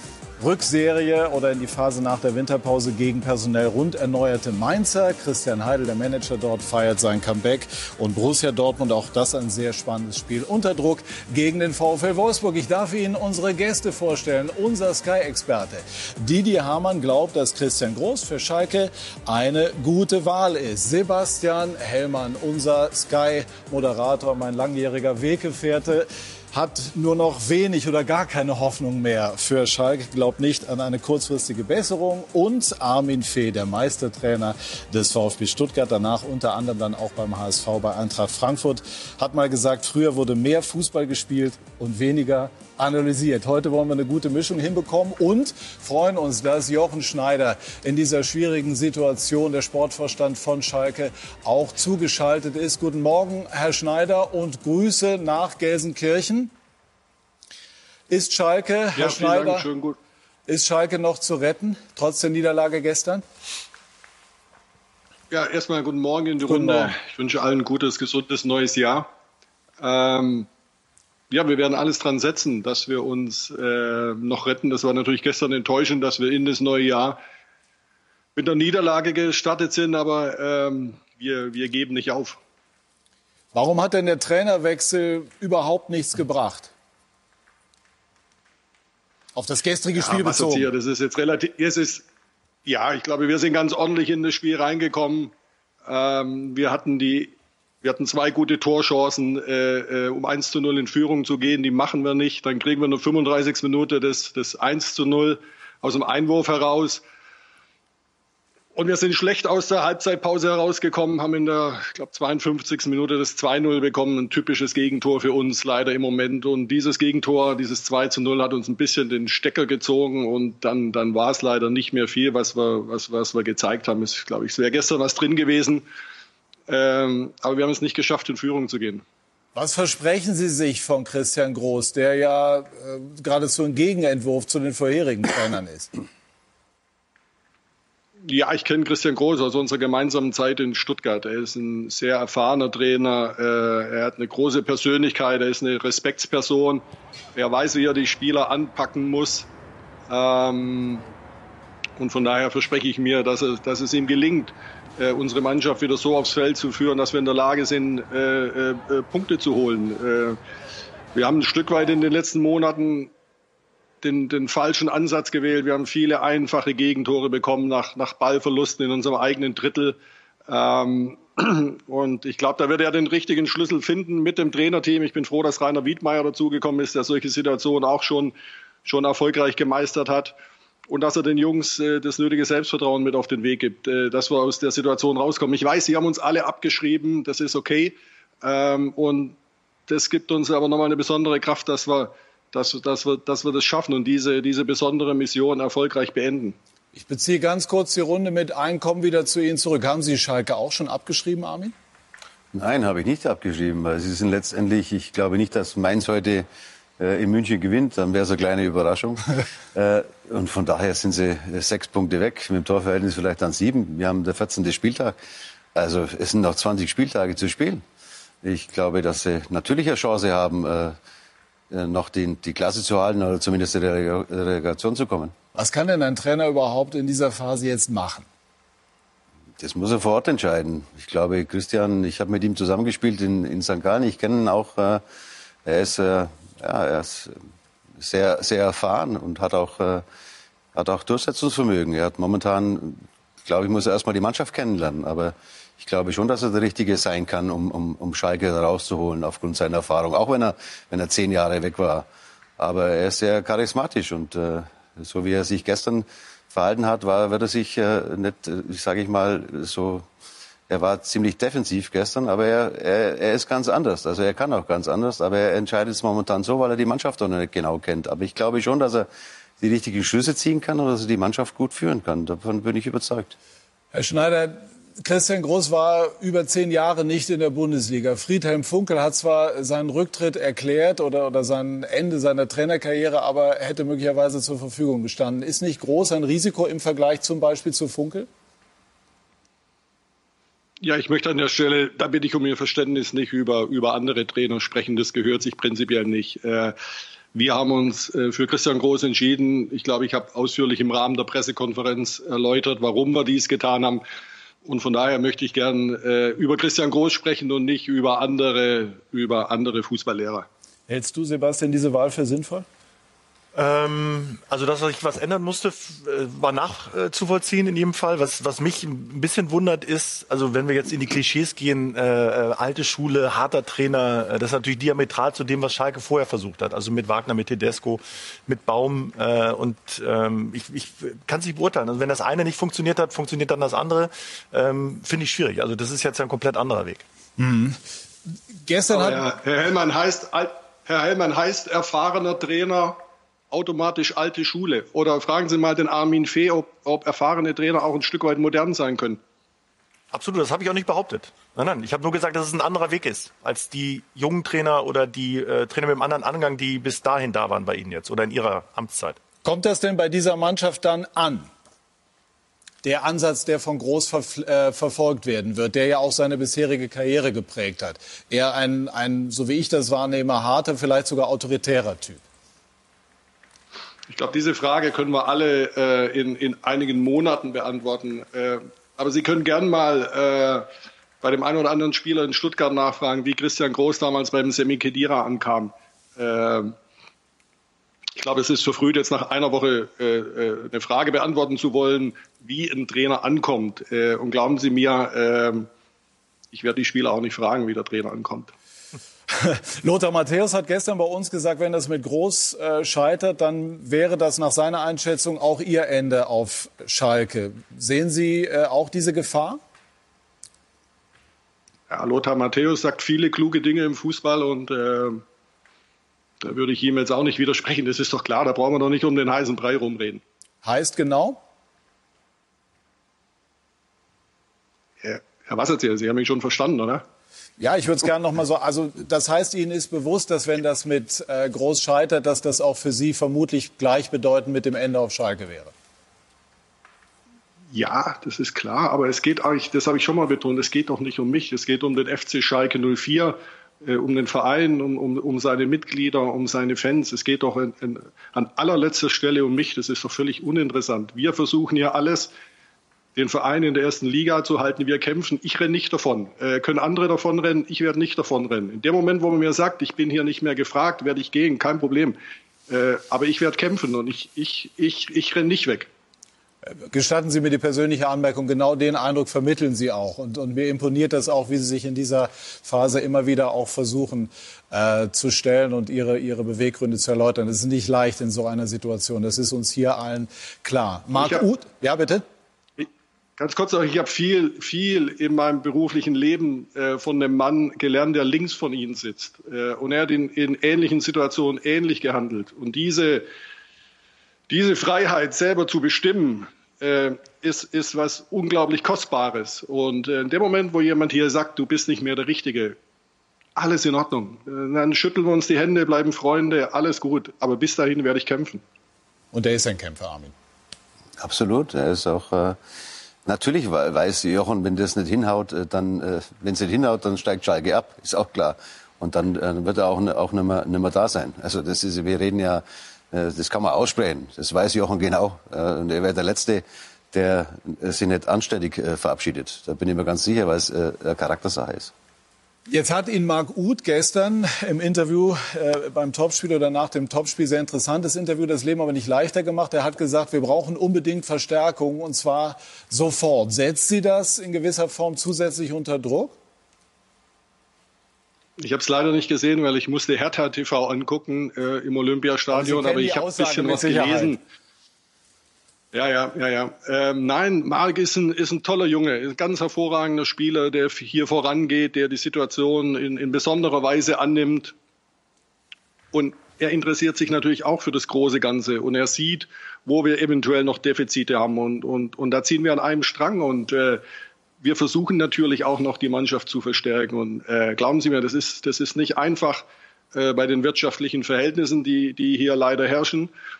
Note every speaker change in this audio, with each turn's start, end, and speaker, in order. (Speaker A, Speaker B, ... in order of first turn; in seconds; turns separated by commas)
Speaker A: 0.4-56.5, Speaker A: 58.1-59.7, Speaker B: 58.9-60.0, Speaker A: 60.5-63.2, Speaker B: 65.3-69.1, Speaker A: 66.5-67.0, Speaker B: 69.8-70.5, Speaker B: 71.3-77.2, Speaker B: 78.3-82.4, Speaker A: 83.5-86.7, Speaker A: 89.3-90.7, Speaker B: 89.9-92.0, Speaker B: 92.7-95.3, Speaker B: 95.8-107.0, Speaker B: 108.7-125.8, Speaker B: 126.7-129.0, Speaker A: 129.5-135.9, Speaker B: 138.2-146.8, Speaker B: 147.3-149.5, Speaker B: 150.1-151.0, Speaker B: 152.0-160.4, Speaker B: 161.1-163.1, Speaker B: 164.0-180.3, Speaker B: 180.9-189.4, Speaker B: 189.9-196.6, Speaker A: 196.9-201.7, Speaker C: 202.5-206.5, Speaker C: 207.0-215.2, Speaker C: 215.7-217.8, Speaker C: 218.4-220.9, Speaker C: 221.7-225.3, Speaker A: 225.5-228.3, Speaker C: 229.6-235.0, Speaker C: 235.6-237.4, Speaker C: 238.0-240.0, Speaker C: 240.7-252.1, Speaker C: 252.6-260.1, Speaker C: 260.7-269.1, Speaker C: 269.6-273.3, Speaker A: 273.9-288.3, Speaker B: 290.8-296.7, Speaker B: 297.3-304.0, Speaker B: 304.6-310.5, Speaker A: 310.9-312.6, Speaker D: 313.5-337.0, Speaker A: 337.4-339.3, Speaker B: 338.9-343.0, Speaker B: 343.5-349.2, Speaker D: 350.1-359.2, Speaker A: 359.4-361.5, Speaker A: 362.8-372.2, Speaker B: 374.1-380.7, Speaker B: 381.2-386.8, Speaker B: 388.1-395.7, Speaker B: 396.5-398.5, Speaker A: 399.3-409.6, Speaker B: 411.9-415.2, Speaker B: 416.4-420.2, Speaker A: 420.6-421.4, Speaker B: 425.0-427.0, Speaker A: 427.6-435.7, Speaker B: 437.7-452.3, Speaker B: 453.1-462.2, Speaker B: 462.7-465.9, Speaker A: 466.9-482.2, Speaker B: 481.2-481.4, Speaker B: 482.8-493.3, Speaker B: 494.5-502.8, Speaker B: 503.6-508.6, Speaker A: 509.3-510.3, Speaker C: 511.2-512.6, Speaker C: 513.2-531.9, Speaker A: 532.7-546.3, Speaker B: 548.6-554.4, Speaker A: 552.5-554.4, Speaker B: 555.9-564.7, Speaker B: 566.1-574.0, Speaker B: 574.6-583.3